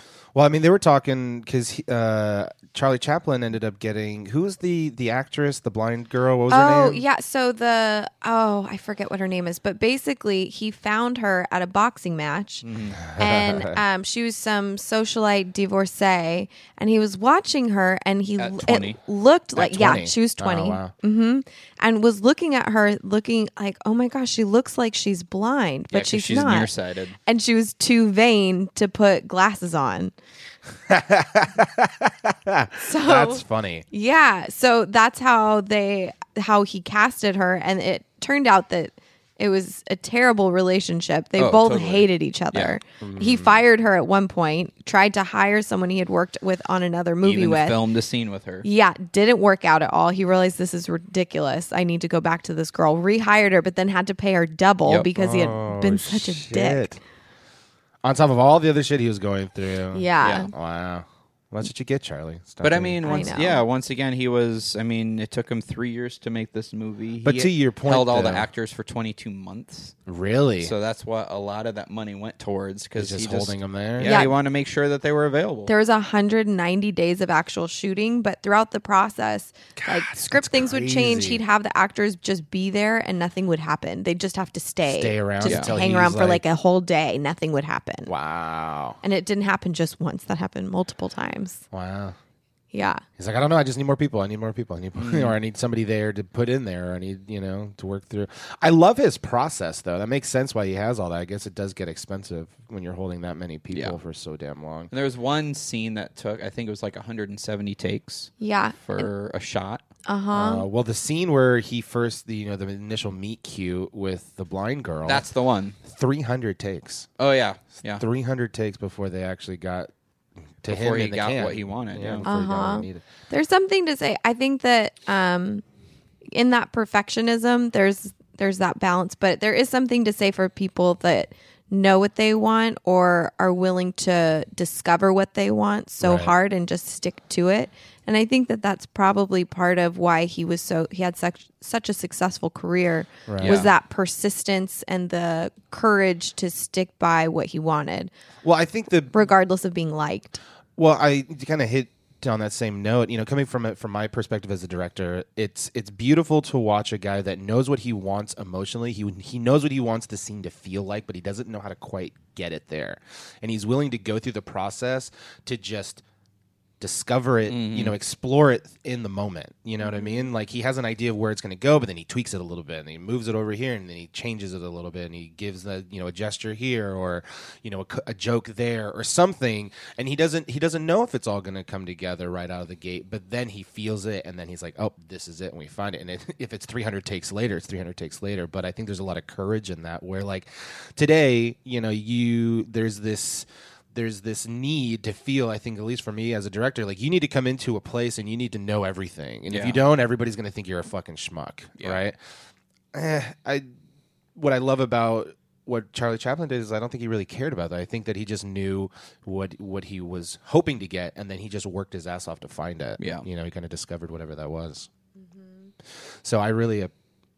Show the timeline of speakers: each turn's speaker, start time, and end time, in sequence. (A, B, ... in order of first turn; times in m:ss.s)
0:00.4-0:07.0 A
0:06.5-0:26.7 B
0:12.6-0:13.0 C
0:13.0-0:13.8 A
0:18.4-0:19.0 C
0:19.6-0:20.9 A
0:25.9-0:27.2 C
0:27.2-0:30.1 B
0:30.9-0:33.9 A
0:32.8-0:47.8 B
0:41.4-0:42.8 C
0:43.0-0:43.5 A
0:47.2-0:48.7 C
0:48.6-0:56.9 B
0:55.2-0:57.0 A
0:58.0-1:03.2 A
0:59.9-1:00.5 B
1:00.2-1:00.5 C
1:02.6-1:10.0 C
1:03.0-1:03.6 B
1:07.2-1:08.5 A
1:10.1-1:10.7 A
1:10.6-1:15.7 C
1:13.0-1:14.2 A
1:14.0-1:14.4 B
1:15.7-1:28.1 B
1:19.8-1:21.4 A
1:24.9-1:26.4 A
1:25.4-1:25.7 C
1:28.1-1:29.0 A
1:29.0-1:31.6 B
1:31.7-1:32.2 A
1:32.7-1:33.0 B
1:33.2-1:44.9 A
1:35.0-1:35.4 C
1:44.9-1:49.8 C
1:48.4-1:49.1 B
1:50.1-1:50.6 B
1:50.3-1:55.2 A
1:55.0-1:55.8 C
1:55.8-1:57.1 A
1:57.2-1:58.0 C
1:57.9-1:59.9 A
2:00.6-2:03.0 A
2:00.7-2:02.3 C
2:02.2-2:05.6 B
2:06.3-2:28.1 B
2:16.0-2:16.3 A
2:23.3-2:23.6 A
2:23.4-2:23.7 C
2:28.4-2:29.1 A
2:29.1-2:30.4 B
2:30.8-2:46.0 A
2:46.8-3:22.2 A
2:47.5-2:48.0 C
2:49.8-2:50.3 B
3:19.5-3:19.8 C
3:22.9-3:23.7 A
3:24.4-3:34.9 A
3:33.0-3:33.3 C
3:36.2-3:36.9 A